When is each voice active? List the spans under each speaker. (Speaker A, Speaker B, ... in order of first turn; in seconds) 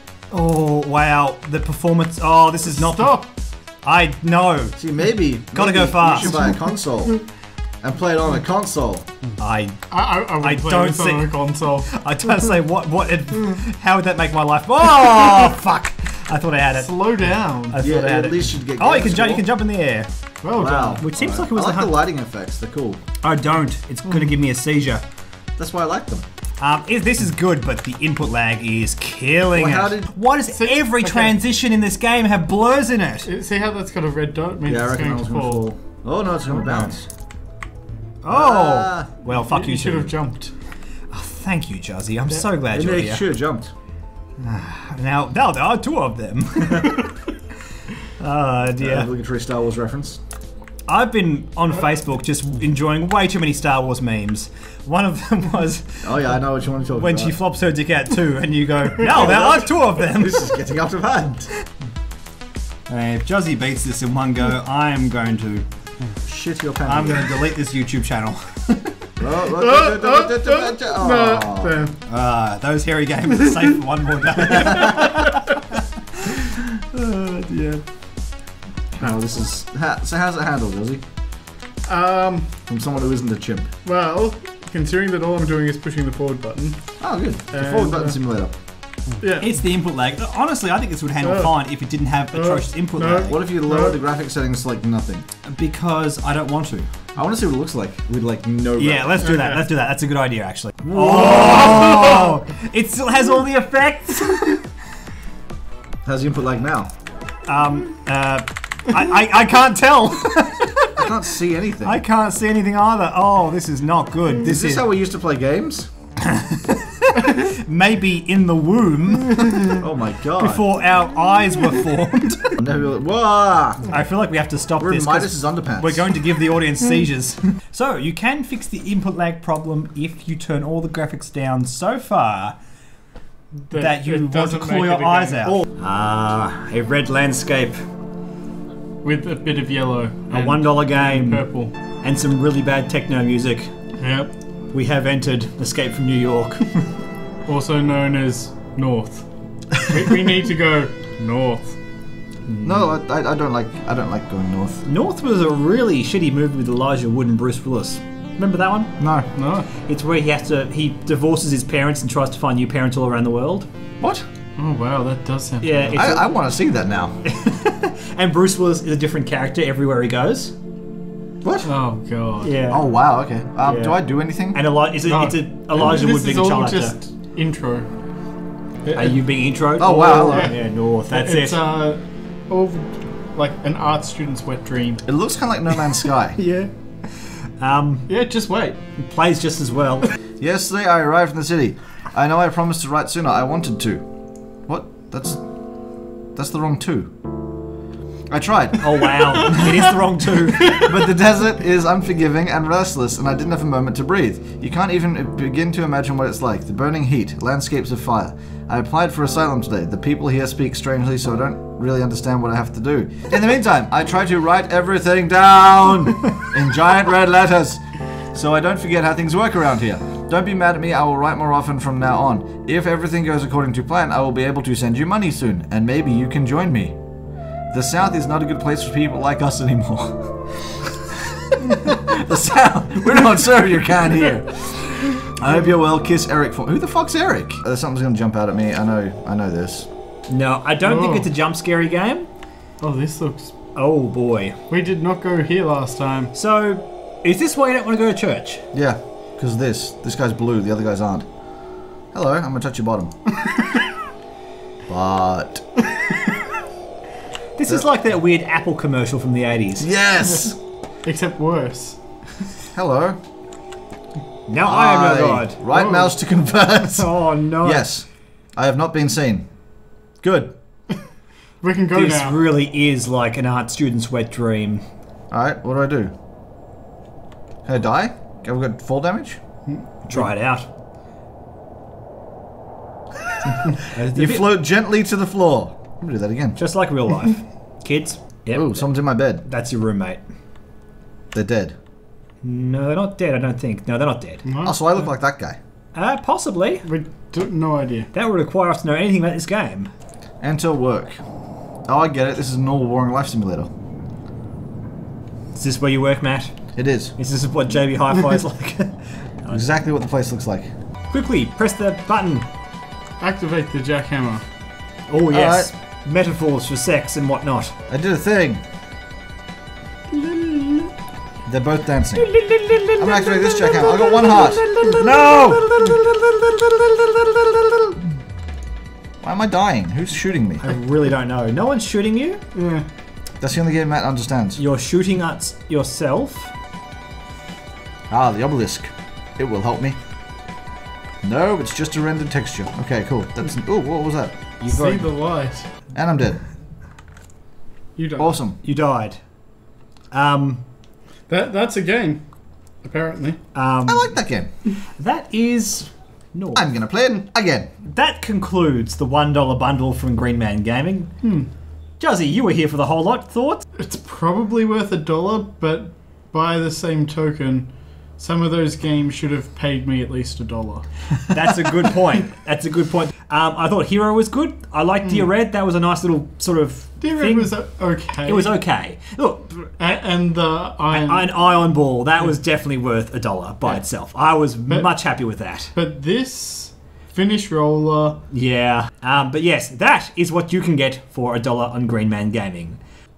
Speaker A: 0.3-3.2, 3.8-4.8, 5.5-6.4, 9.4-16.9, 17.7-20.1, 21.0-22.0, 23.2-25.0, 26.6-33.3, 36.5-37.0, 38.2-40.1, 41.1-43.2, 44.4-47.2, 48.2-49.1, 50.9-56.1, 57.0-60.5, 62.9-65.7, 66.8-69.0, 72.1-77.5, 89.4-93.4, 95.4-96.9, 98.8-104.6, 107.5-111.1, 111.8-114.8, 116.2-119.8, 120.4-122.6, 123.9-132.6, 133.7-137.8, 140.3-141.5, 142.0-143.7, 144.7-146.9, 152.5-152.9, 154.8-158.9, 159.8-163.7, 165.6-166.3, 167.2-170.5, 172.4-172.8, 173.6-174.0, 174.5-176.9, 178.9-181.6, 186.4-188.1, 189.0-190.1, 198.8-200.9, 240.3-242.3, 243.7-244.6, 246.3-248.7, 257.6-259.9, 264.5-265.6, 266.9-267.9, 271.9-274.9, 280.1-280.7, 283.7-284.4, 286.6-288.9, 289.4-290.2, 292.4-294.4, 295.9-296.9, 298.1-299.9, 305.5-306.5, 307.2-309.6, 311.1-312.5, 315.1-317.7, 320.1-320.9, 322.1-327.9, 330.6-332.4, 334.6-336.5, 344.6-345.1, 348.6-349.2, 350.1-350.6, 353.5-354.1, 355.0-356.6, 357.8-361.1, 362.0-363.6, 371.3-377.5, 378.2-379.7, 380.9-385.7, 388.3-392.8
Speaker B: 2.8-3.3, 9.9-11.9, 16.8-17.8, 20.4-21.0, 30.5-31.4, 33.2-35.6, 39.3-40.5, 69.5-72.0, 81.8-82.5, 83.8-86.9, 87.5-88.2, 89.2-89.5, 91.2-91.5, 92.3-94.0, 99.2-99.6, 133.7-135.6, 139.0-141.7, 144.0-144.3, 147.4-151.8, 159.3-159.7, 164.6-166.0, 171.6-172.5, 175.1-177.9, 178.8-179.2, 179.9-185.0, 188.1-188.8, 240.8-241.3, 242.8-243.5, 244.7-246.3, 260.2-260.5, 261.0-262.0, 265.7-266.1, 271.6-272.4, 294.4-294.8, 296.8-298.1, 313.2-314.4, 332.5-332.9, 344.7-345.7, 347.9-348.4, 351.3-352.2, 352.8-353.4, 361.2-361.5, 363.7-370.9, 377.0-378.5, 379.8-381.3, 385.7-388.2
Speaker C: 4.8-7.2, 7.8-9.1, 17.8-19.4, 20.6-23.0, 25.6-26.2, 29.5-30.1, 34.6-37.0, 38.3-39.1, 42.7-43.7, 48.8-50.2, 56.0-57.3, 59.0-61.5, 66.2-67.3, 69.2-71.8, 79.0-81.0, 82.7-83.7, 87.0-88.5, 93.3-95.3, 97.2-99.3, 100.9-102.3, 106.0-106.9, 110.9-112.0, 114.4-115.9, 119.7-120.6, 122.6-123.9, 124.8-126.1, 152.6-154.8, 159.0-159.3, 164.0-164.2, 165.9-167.2, 171.4-171.7, 172.7-174.6, 179.8-180.5, 185.1-186.4, 190.4-194.0, 194.7-195.4, 196.3-197.1, 198.3-199.9, 200.6-217.8, 218.3-226.9, 227.7-239.9, 248.7-251.2, 252.1-253.1, 254.9-255.9, 259.8-260.5, 262.7-263.2, 264.6-269.4, 270.2-270.5, 275.3-276.1, 277.6-279.4, 283.9-286.6, 288.5-289.4, 291.3-291.8, 294.6-295.6, 300.4-301.2, 301.9-303.7, 306.8-307.1, 309.5-310.7, 315.3-315.7, 317.9-318.6, 321.4-322.3, 323.0-325.0, 329.2-330.6, 333.4-334.6, 338.1-340.0, 341.2-344.4, 345.9-346.4, 348.2-348.6, 353.9-354.5, 356.6-357.7